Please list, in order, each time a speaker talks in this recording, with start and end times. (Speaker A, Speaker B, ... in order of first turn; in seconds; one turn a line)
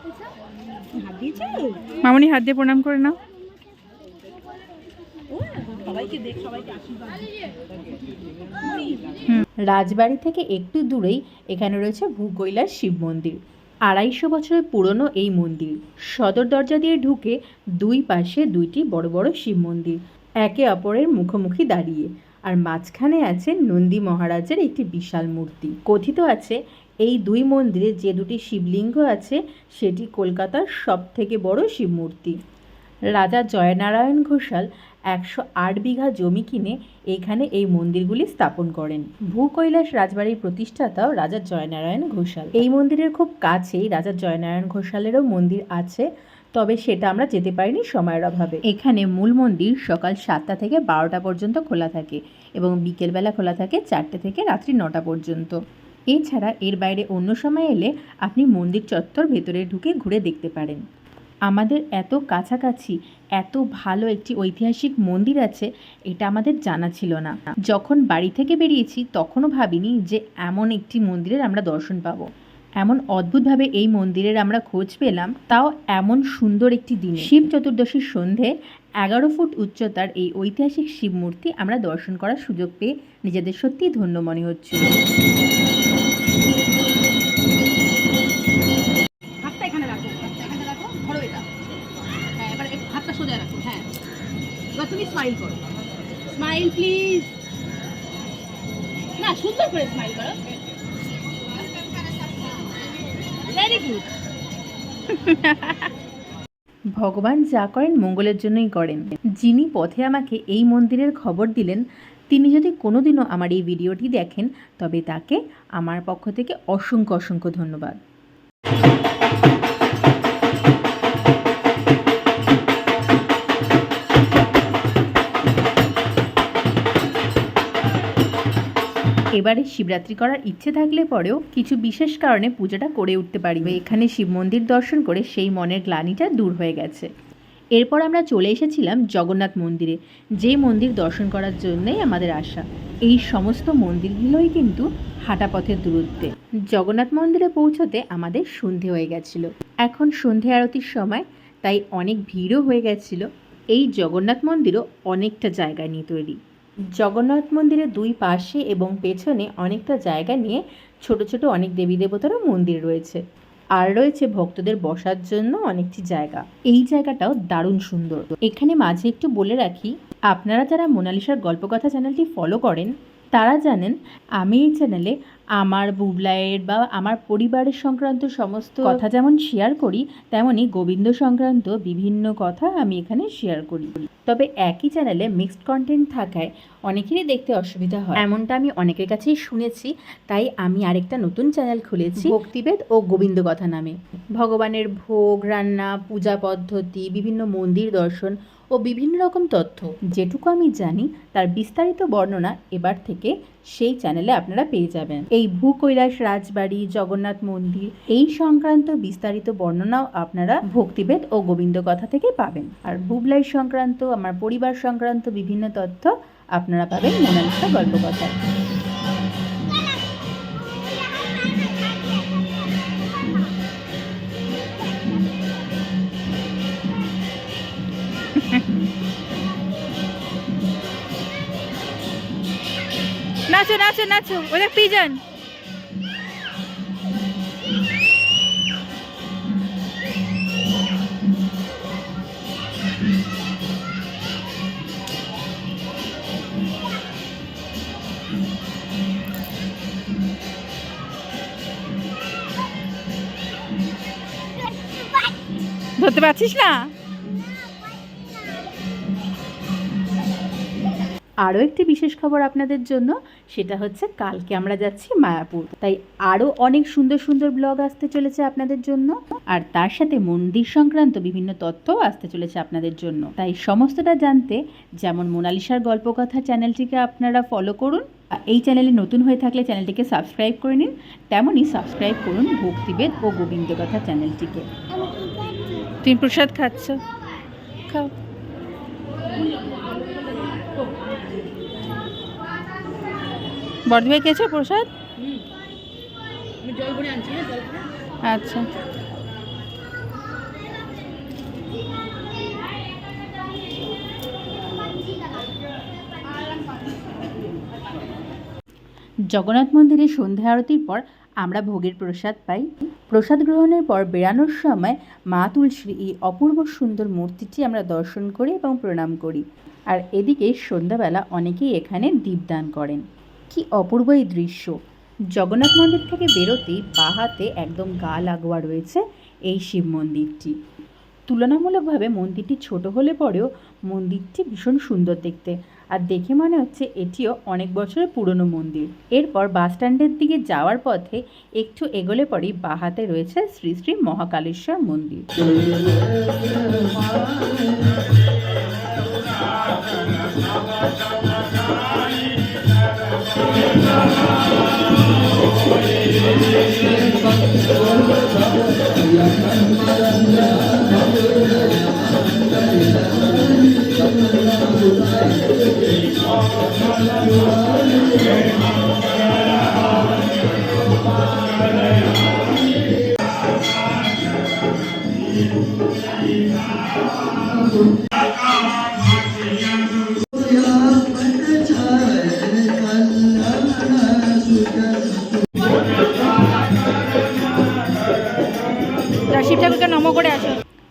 Speaker A: 0.9-2.0
Speaker B: 2.0-3.2
Speaker A: 5.3-7.7
Speaker A: 8.6-9.2
Speaker C: 9.3-32.4
Speaker C: 33.1-55.6
Speaker C: 56.1-60.8
Speaker C: 61.5-72.3
Speaker C: 72.8-84.8
Speaker A: 89.4-91.5
Speaker A: 92.4-93.9
Speaker A: 94.8-95.7
Speaker A: 96.3-97.3
Speaker A: 99.2-100.5
Speaker A: 103.4-104.1
Speaker B: 105.1-105.9
Speaker C: 107.0-118.0
Speaker C: 129.4-137.1
Speaker C: 137.8-156.4
Speaker C: 157.0-163.2
Speaker C: 163.8-218.3
Speaker B: 228.5-228.8
Speaker B: 233.5-235.2
Speaker B: 256.0-256.9
Speaker C: 261.4-284.7
Speaker B: 286.1-287.0
Speaker A: 289.3-291.2
Speaker B: 293.9-294.9
Speaker A: 295.2-295.5
Speaker A: 296.6-297.9
Speaker B: 298.2-298.7
Speaker C: 309.3-324.8
Speaker C: 325.4-330.6
Speaker C: 331.3-345.2
Speaker B: 389.3-390.6